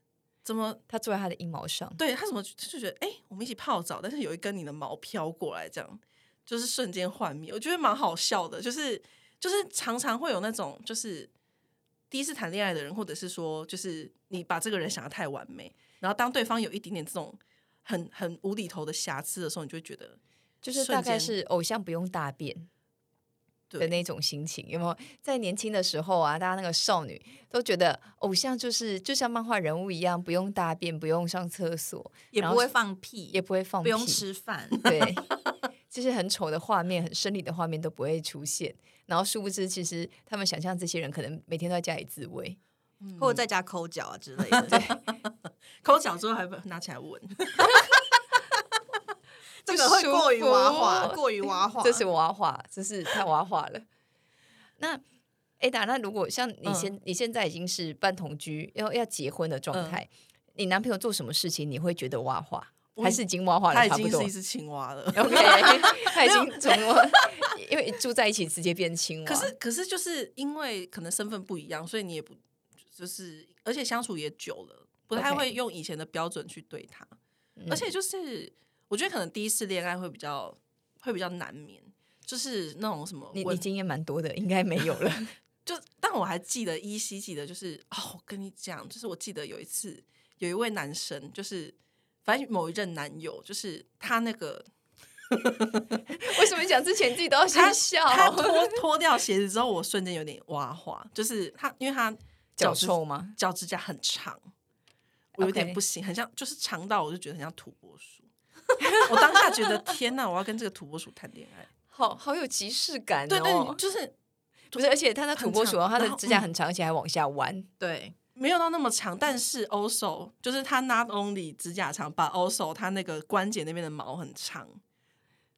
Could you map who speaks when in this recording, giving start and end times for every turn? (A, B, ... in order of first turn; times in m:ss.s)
0:00.4-0:00.8 A
0:00.9-0:02.0 B
0:02.0-0:11.3 A
0:12.1-0:20.2 A
0:20.6-0:22.7 B
0:20.7-0:21.3 A
0:23.7-0:24.0 A
0:23.8-0:32.7 B
0:32.3-0:35.0 C
0:33.3-0:34.2 B
0:34.8-0:35.3 B
0:35.9-0:42.6 B
0:43.0-0:43.4 A
0:43.2-0:44.8 C
0:44.5-0:45.3 A
0:44.7-0:45.0 B
0:45.8-0:47.6 A
0:49.6-0:52.1 C
0:49.7-0:53.8 B
0:55.6-1:04.3 B
0:56.6-0:56.9 A
0:59.7-1:00.0 A
1:03.0-1:07.4 A
1:05.1-1:09.5 B
1:09.3-1:12.4 A
1:12.9-1:17.1 A
1:15.1-1:15.5 B
1:17.6-1:17.9 B
1:17.7-1:23.7 A
1:23.3-1:25.3 B
1:25.6-1:34.7 A
1:35.3-1:35.8 A
1:36.1-1:38.8 B
1:37.5-1:44.4 A
1:42.6-1:43.4 B
1:45.4-1:45.8 B
1:45.4-1:48.3 A
1:48.8-1:49.6 B
1:49.0-1:51.7 A
1:51.9-1:53.8 B
1:53.3-1:54.1 A
1:54.7-1:57.7 B
1:55.4-1:56.5 A
1:57.8-1:58.2 C
1:58.4-2:04.8 A